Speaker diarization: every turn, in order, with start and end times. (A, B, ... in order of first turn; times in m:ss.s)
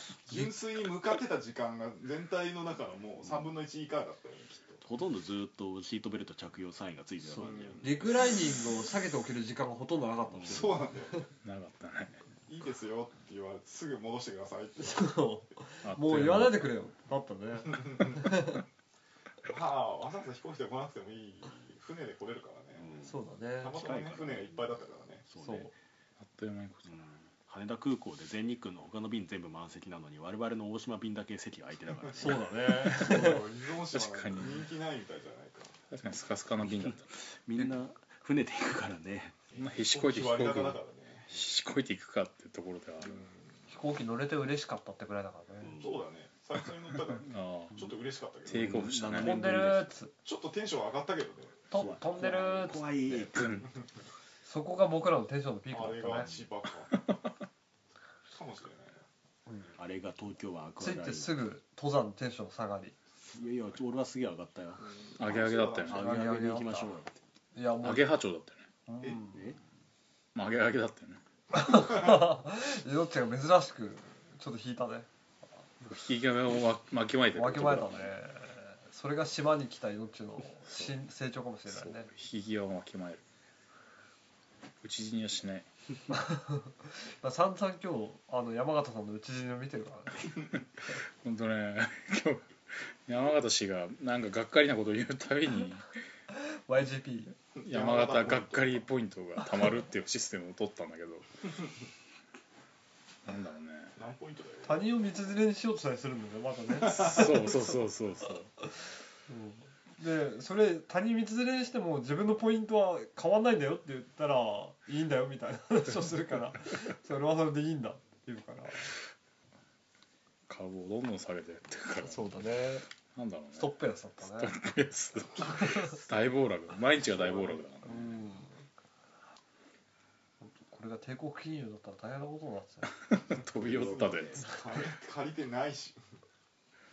0:00.3-0:04.8 A
0:04.8-0:07.8 B
0:07.3-0:08.3 A
0:07.8-0:11.2 C
0:10.3-0:10.6 B
0:10.4-0:11.3 A
0:11.4-0:12.2 D
0:12.5-0:15.2 A
0:14.8-0:18.6 C
0:15.8-0:16.7 D
0:17.7-0:18.4 A
0:19.4-0:22.9 A
0:22.8-0:23.2 B
0:23.0-0:23.8 C
0:23.6-0:25.3 A
0:23.7-0:24.7 B
0:25.3-0:25.7 B
0:25.4-0:25.7 C
0:26.2-0:27.0 D
0:26.9-0:32.5 B
0:32.2-0:33.4 C
0:32.7-0:35.8 A
0:33.9-0:34.7 D
0:35.9-0:37.1 D
0:36.6-0:39.4 B
0:39.6-0:41.3 A
0:39.6-0:43.2 D
0:43.7-0:45.8 C
0:45.6-0:46.0 B
0:45.8-0:49.1 A
0:47.1-0:47.8 D
0:48.5-0:49.7 D
0:48.5-0:49.9 B
0:49.2-0:50.1 C
0:50.2-0:51.7 A
0:51.7-0:52.9 C
0:51.8-0:53.7 B
0:53.3-0:53.7 D
0:54.4-0:56.3 C
0:55.7-0:57.0 A
0:58.3-0:59.0 A
0:59.5-0:59.8 C
0:59.8-1:01.4 B
1:00.8-1:03.0 C
1:03.2-1:04.8 B
1:04.8-1:06.0 A
1:05.2-1:06.0 D
1:05.9-1:07.2 B
1:05.9-1:06.9 C
1:07.5-1:08.1 C
1:07.8-1:08.6 D
1:08.9-1:09.4 C
1:09.3-1:09.6 B
1:10.4-1:11.2 D
1:11.5-1:15.1 C
1:15.8-1:18.1 D
1:17.3-1:22.1 C
1:21.7-1:23.2 D
1:24.8-1:25.7 D
1:26.1-1:30.3 C
1:31.2-1:35.9 D
1:36.4-1:37.4 C
1:37.6-1:38.8 A
1:37.6-1:41.3 D
1:43.2-1:44.0 D
1:44.0-1:45.0 A
1:44.6-1:47.6 C
1:46.9-1:48.5 D
1:49.3-1:58.9 C
2:00.5-2:08.2 D
2:02.0-2:02.8 C
2:03.6-2:04.5 C
2:05.5-2:05.9 C
2:07.8-2:08.6 C
2:10.4-2:12.9 C
2:12.9-2:14.5 D
2:13.5-2:14.5 B
2:13.8-2:16.0 A